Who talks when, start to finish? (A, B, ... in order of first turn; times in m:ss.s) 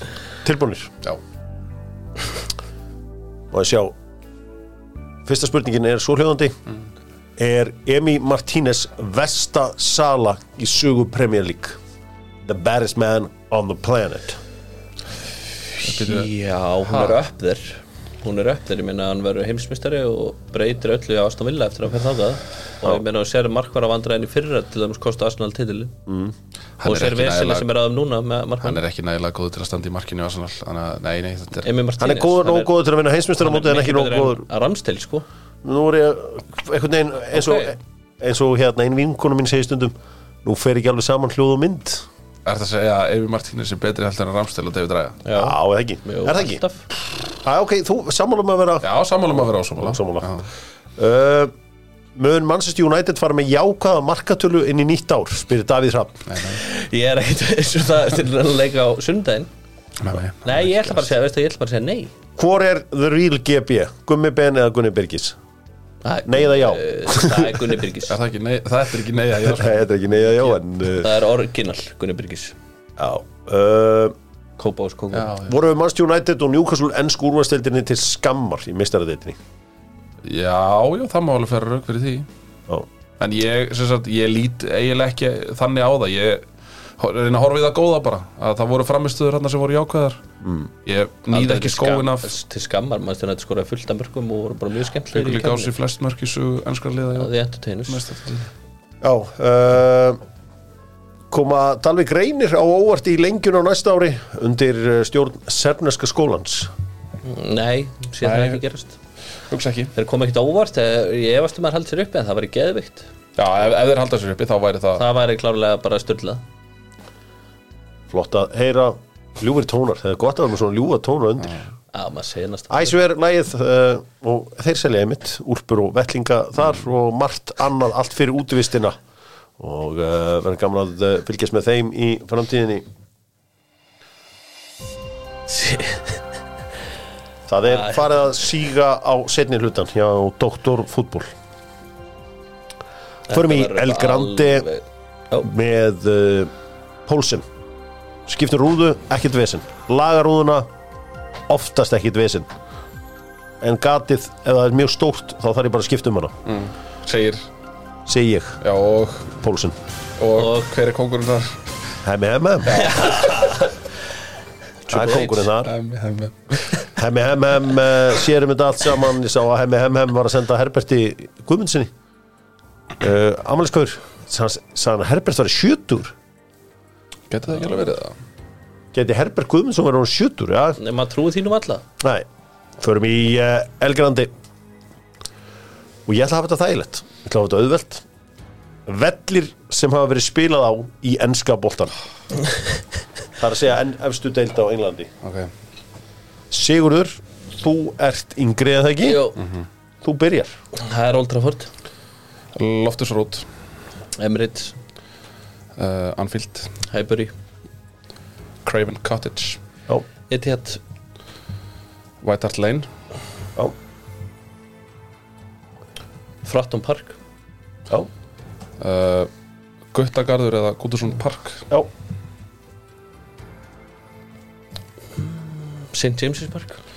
0:00.4-0:00.9 A
0:03.5-0:03.9 A
0:05.2-0:06.6 A
0:07.4-0:11.8 A
0:12.4-0:14.4 A
0:15.8-0:16.3 B
0:15.8-0:25.9 C
0:16.9-0:17.2 B
0:26.0-0:26.3 A
0:26.8-0:27.7 B
0:26.8-0:28.8 C
0:28.6-0:31.7 B
0:31.6-0:32.7 C
0:32.0-0:34.4 A
0:33.4-0:35.2 C
0:35.6-0:42.0 A
0:37.3-0:37.7 C
0:42.4-0:45.2 B
0:45.2-0:46.8 C
0:45.3-0:46.6 A
0:47.4-0:50.3 A
0:48.8-0:50.5 B
0:51.0-0:51.5 A
0:52.1-0:56.2 A
0:56.3-0:56.6 B
0:56.5-0:59.5 C
1:00.0-1:01.1 B
1:00.4-1:02.1 C
1:02.4-1:05.4 A
1:06.0-1:08.2 C
1:06.2-1:07.7 A
1:08.1-1:10.5 B
1:09.5-1:11.1 A
1:11.0-1:12.5 C
1:13.0-1:14.2 A
1:14.6-1:15.4 C
1:15.1-1:15.5 B
1:15.4-1:19.4 A
1:20.2-1:22.3 B
1:23.2-1:26.4 B
1:27.0-1:30.2 B
1:30.4-1:30.7 A
1:30.8-1:32.3 B
1:31.3-1:35.7 C
1:35.1-1:37.3 B
1:37.1-1:38.0 C
1:37.9-1:38.5 B
1:39.0-1:40.2 A
1:41.3-1:46.7 A
1:47.2-1:49.0 C
1:48.2-1:48.6 B
1:49.5-1:49.9 B
1:49.9-1:53.1 C
1:53.4-1:55.0 B
1:55.0-1:56.4 C
1:58.1-2:01.6 A
2:01.9-2:03.0 C
2:02.7-2:09.0 A
2:09.6-2:12.8 A
2:15.5-2:16.2 C
2:17.5-2:21.3 A
2:17.7-2:18.0 C
2:23.3-2:24.7 A
2:23.3-2:25.5 C
2:25.4-2:26.5 A
2:27.0-2:27.4 A
2:28.3-2:30.7 A
2:31.5-2:32.5 A
2:33.6-2:36.3 A
2:36.4-2:37.5 B
2:38.0-2:38.6 A
2:38.6-2:39.4 B
2:39.4-2:39.8 A
2:40.2-2:41.7 B
2:40.3-2:40.7 C
2:42.0-2:42.9 A
2:42.6-2:43.7 B
2:42.7-2:43.7 C
2:44.9-2:45.7 A
2:44.9-2:45.3 C
2:45.0-2:46.8 B
2:46.9-2:51.9 A
2:53.0-2:56.1 A
2:57.3-2:58.2 B
2:58.9-3:00.8 A
3:00.8-3:01.8 C
3:02.0-3:02.2 A
3:02.8-3:04.3 A
3:06.0-3:08.0 A
3:08.8-3:11.9 A
3:13.4-3:15.1 A
3:15.2-3:15.5 B
3:16.5-3:19.3 A
3:19.0-3:19.4 C
3:19.4-3:19.6 B
3:20.0-3:20.5 A
3:20.7-3:21.7 C
3:22.5-3:23.4 B
3:24.2-3:24.8 C
3:25.8-3:26.7 B
3:26.9-3:27.3 C
3:28.6-3:29.6 B
3:30.3-3:30.8 C
3:32.2-3:32.9 B
3:36.4-3:37.2 C
3:38.8-3:39.3 B
3:39.9-3:41.6 B
3:45.2-3:46.8 C